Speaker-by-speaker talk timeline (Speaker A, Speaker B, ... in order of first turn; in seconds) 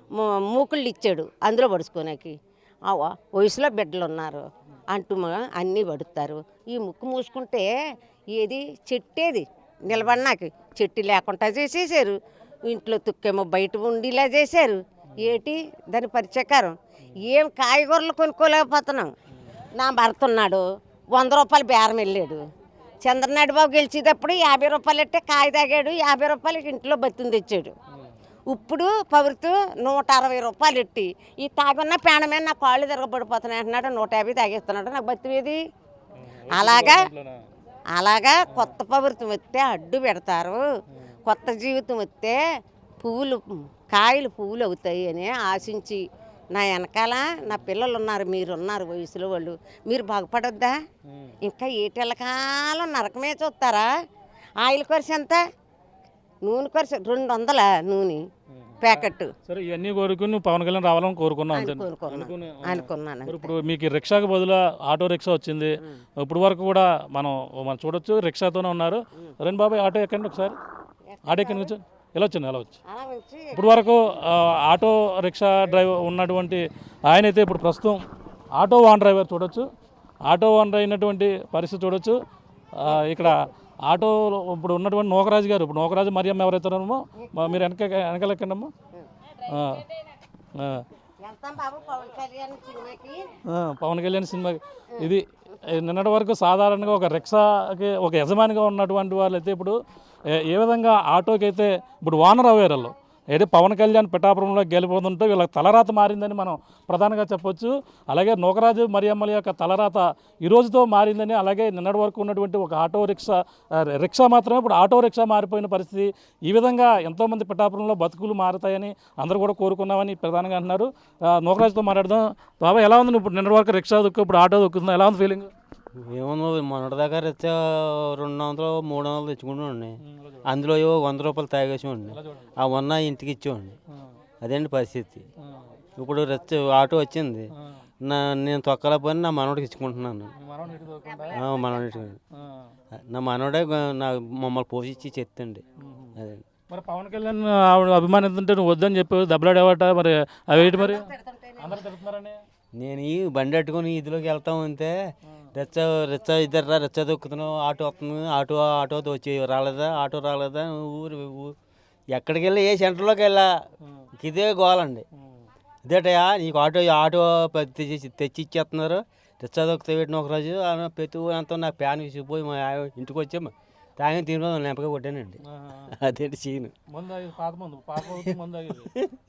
Speaker A: 0.1-7.7, 8.3-19.1, 19.8-22.4, 23.0-27.8, 28.5-35.6, 36.5-37.1, 37.9-40.6, 41.3-42.4, 43.0-50.8, 51.4-53.9, 54.6-55.4, 56.5-58.2, 58.8-59.3, 61.5-63.5, 71.1-71.7, 72.9-73.9, 82.8-83.4, 87.2-87.6, 91.2-93.3, 141.1-141.8, 150.5-151.8
Speaker B: 9.9-10.2, 36.2-37.4, 51.1-51.4, 58.5-70.6, 71.3-72.8, 73.5-78.0, 78.6-79.7, 80.3-82.2, 82.8-88.7, 89.5-89.8, 90.6-90.8, 93.5-99.8, 100.3-125.5, 130.1-130.4, 132.1-132.5, 135.4-135.8, 137.6-137.9, 140.4-141.4, 142.4-142.7, 145.8-146.2, 146.7-151.1, 151.6-152.4, 165.2-165.5, 175.5-175.9, 176.9-178.9
Speaker C: 126.0-133.8, 134.4-135.3, 136.0-137.5, 138.0-140.3, 141.3-142.2, 142.9-145.6, 146.2-146.4, 152.8-161.5, 162.1-163.5, 164.2-165.1, 165.9-176.7, 178.8-179.2